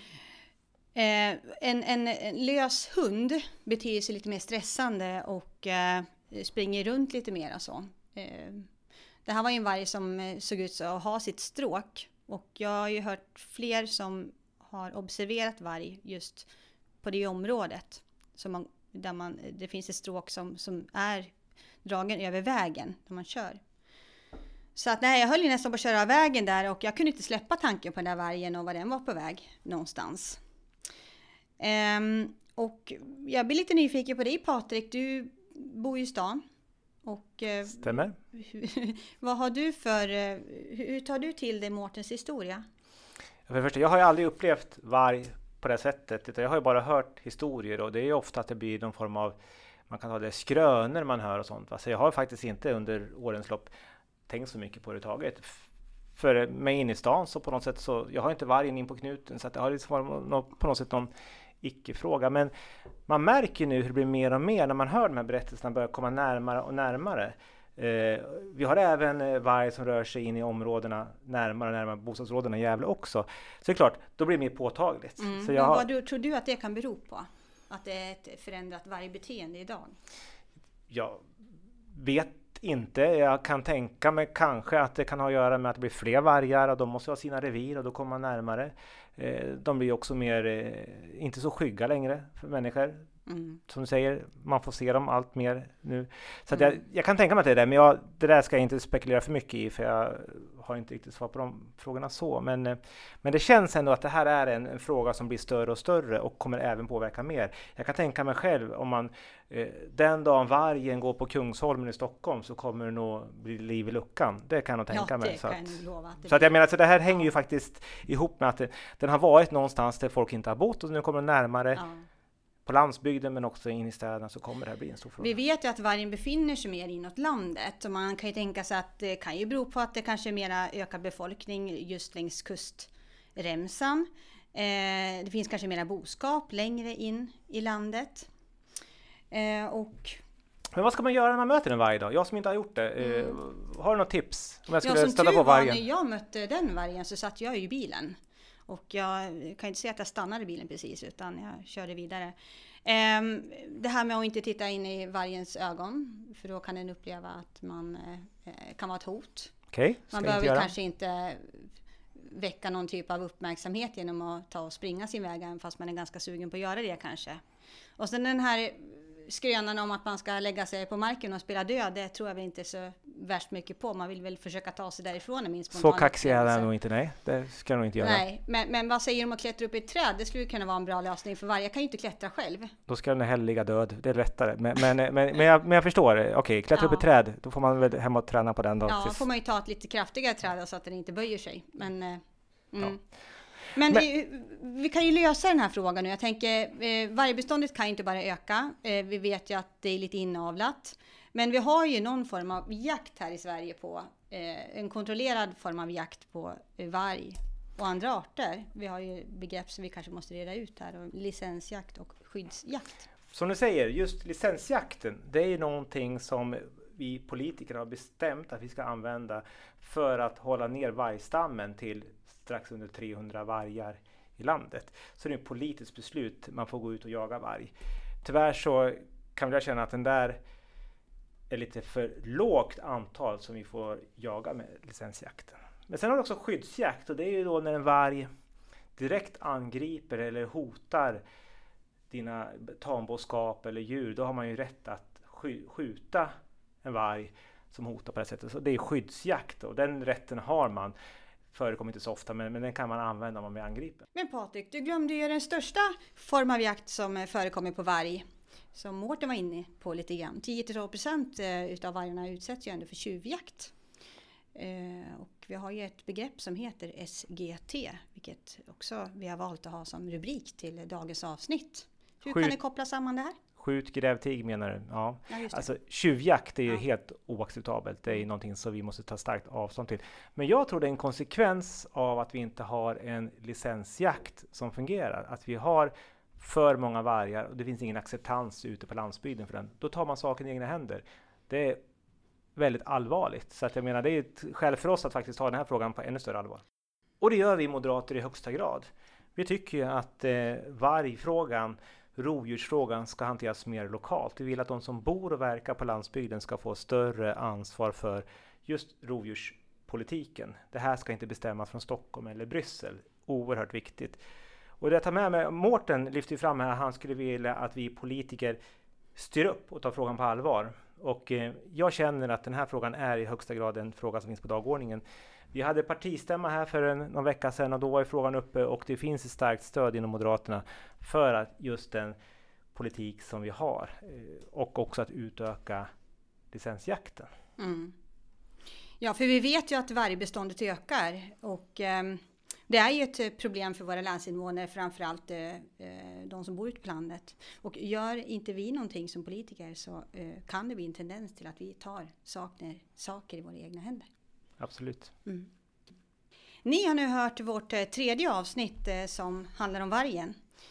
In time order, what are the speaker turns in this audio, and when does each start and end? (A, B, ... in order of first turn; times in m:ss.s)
0:01.0-0:08.7 A
0:09.3-0:16.5 A
0:17.0-0:21.3 A
0:21.8-0:23.6 A
0:24.8-0:30.4 A
0:31.6-0:36.4 A
0:37.0-0:42.6 A
0:37.7-0:38.2 B
0:43.5-0:49.4 B
0:49.9-0:53.7 B
0:54.3-1:01.1 B
1:01.6-1:02.5 B
1:03.1-1:15.8 B
1:15.2-1:19.9 A
1:20.9-1:21.2 B
1:21.9-1:33.1 B
1:33.3-1:33.6 A
1:33.7-2:01.8 B
1:54.9-1:56.6 A
2:01.8-2:02.0 A
2:02.7-2:05.4 B
2:05.2-2:18.3 A
2:19.3-2:20.2 A
2:20.8-2:25.8 B
2:23.0-2:23.4 A
2:24.8-2:28.2 A
2:28.7-2:39.6 A
2:39.7-2:40.7 B
2:40.1-2:47.4 A
2:48.0-2:56.7 A
2:55.7-2:58.2 B
2:58.0-3:02.7 A
3:02.9-3:09.2 B
3:06.7-3:07.0 A
3:08.9-3:12.2 A
3:12.7-3:13.0 A
3:13.7-3:32.9 A
3:33.3-3:47.7 B
3:48.2-3:50.4 B
3:51.5-3:58.3 B
3:59.0-4:01.2 B
4:02.1-4:06.3 B
4:06.8-4:10.9 B
4:11.5-4:14.0 B
4:14.2-4:18.2 A
4:18.8-4:23.7 A
4:24.6-4:33.4 A
4:32.3-4:32.6 B
4:33.6-4:51.8 B
4:35.3-4:35.7 A
4:52.6-4:56.6 B
4:57.2-5:14.2 B
5:14.8-5:18.6 B
5:19.2-5:32.2 B
5:32.7-5:35.9 B
5:36.5-5:37.3 B
5:37.6-5:37.9 A
5:39.0-5:54.1 A
5:54.6-5:55.1 B
5:56.6-6:00.4 A